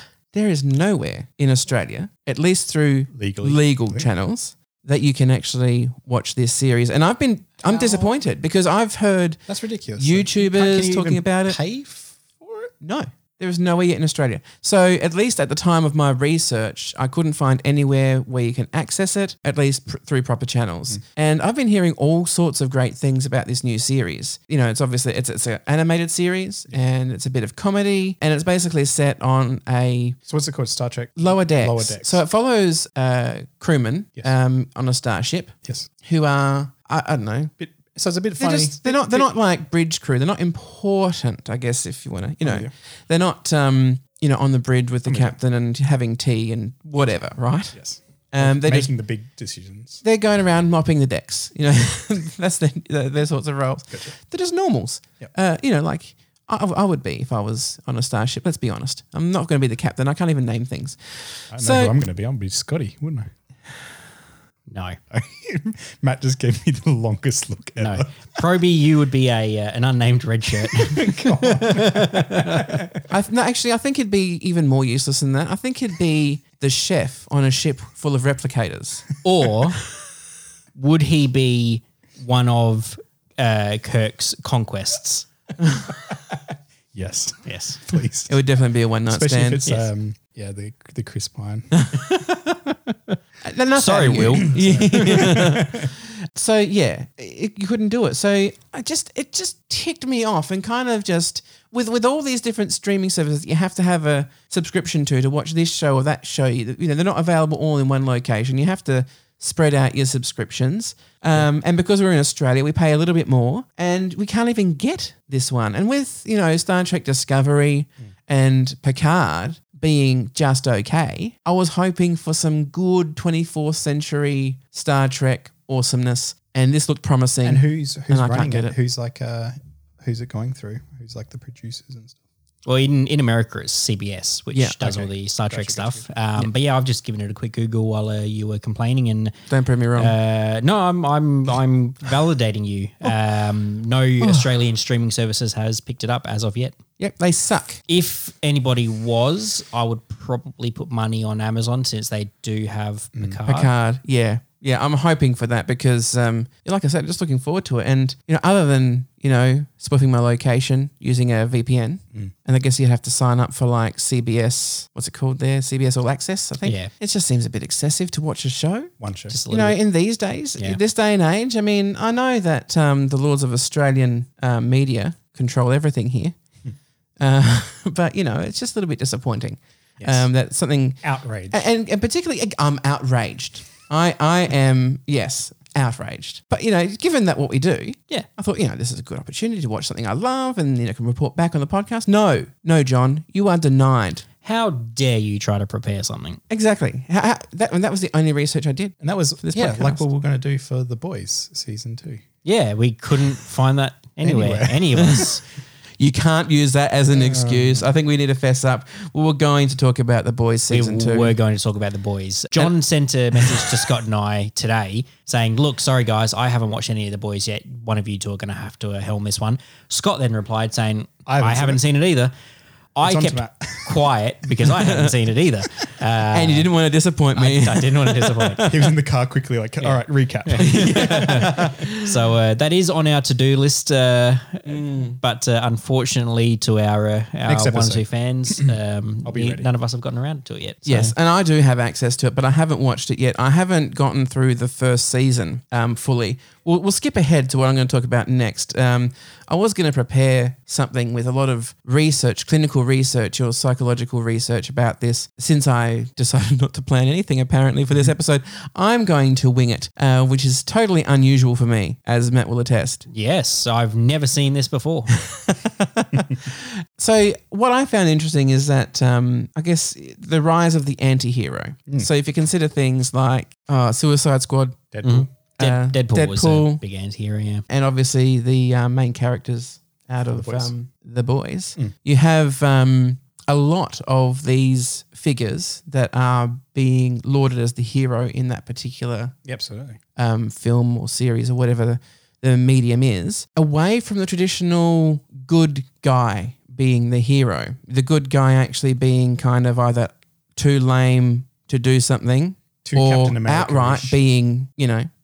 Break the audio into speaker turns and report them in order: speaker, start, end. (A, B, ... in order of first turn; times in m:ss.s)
0:00.3-0:09.4 A
0:03.1-0:04.1 B
0:07.6-0:08.1 B
0:09.5-0:12.7 B
0:10.0-0:11.6 A
0:12.8-0:30.2 A
0:30.3-0:32.2 B
0:31.2-0:37.5 A
0:37.6-0:39.3 B
0:38.4-0:47.8 A
0:42.4-0:42.7 B
0:45.1-0:45.3 B
0:47.7-0:50.0 B
0:48.3-0:48.9 A
0:50.0-1:02.0 A
1:01.5-1:03.3 B
1:04.7-1:05.0 C
1:05.1-1:08.4 B
1:07.8-1:12.8 C
1:10.7-1:13.0 B
1:13.1-1:19.1 A
1:19.2-1:19.8 C
1:20.8-1:25.3 C
1:26.9-1:28.4 B
1:27.4-1:27.8 C
1:28.3-1:29.6 A
1:29.1-1:31.8 B
1:32.1-1:33.2 C
1:33.4-2:08.7 A
1:33.8-1:35.5 C
1:34.5-1:35.9 B
2:07.4-2:12.2 B
2:12.6-2:19.3 C
2:14.8-2:16.1 B
2:19.5-2:20.1 A
2:20.0-2:26.8 C
2:24.2-2:24.5 A
2:27.0-2:27.8 A
2:27.9-2:33.7 C
2:33.5-2:48.9 A
2:46.6-2:46.9 C
2:49.0-2:49.4 B
2:49.3-2:49.8 C
2:49.5-2:56.3 A
2:57.2-3:14.2 A
3:00.0-3:00.3 B
3:01.0-3:01.6 B
3:14.4-3:16.4 C
3:16.5-3:20.0 A
3:19.0-3:22.2 B
3:22.4-3:25.4 C
3:24.2-3:25.3 B
3:26.0-3:31.4 A
3:27.1-3:27.9 B
3:30.7-3:42.3 C
3:33.4-3:33.7 A
3:41.2-3:41.8 B
3:42.9-3:46.7 C
3:43.0-3:44.1 B
3:44.8-3:45.1 A
3:46.3-3:48.8 A
3:47.3-3:48.6 C
3:48.6-3:51.8 B
3:50.4-4:01.1 C
3:50.6-3:51.9 A
3:54.6-3:55.2 A
3:57.5-3:58.7 B
3:59.2-3:59.7 B
4:00.8-4:23.0 A
4:23.1-4:25.1 C
4:25.2-4:34.8 A
4:34.9-4:35.3 B
4:35.0-4:37.6 C
4:35.6-4:36.8 A
4:37.7-4:49.3 A
4:40.3-4:40.7 B
4:49.4-4:50.0 B
4:50.2-5:05.1 A
5:02.8-5:04.2 B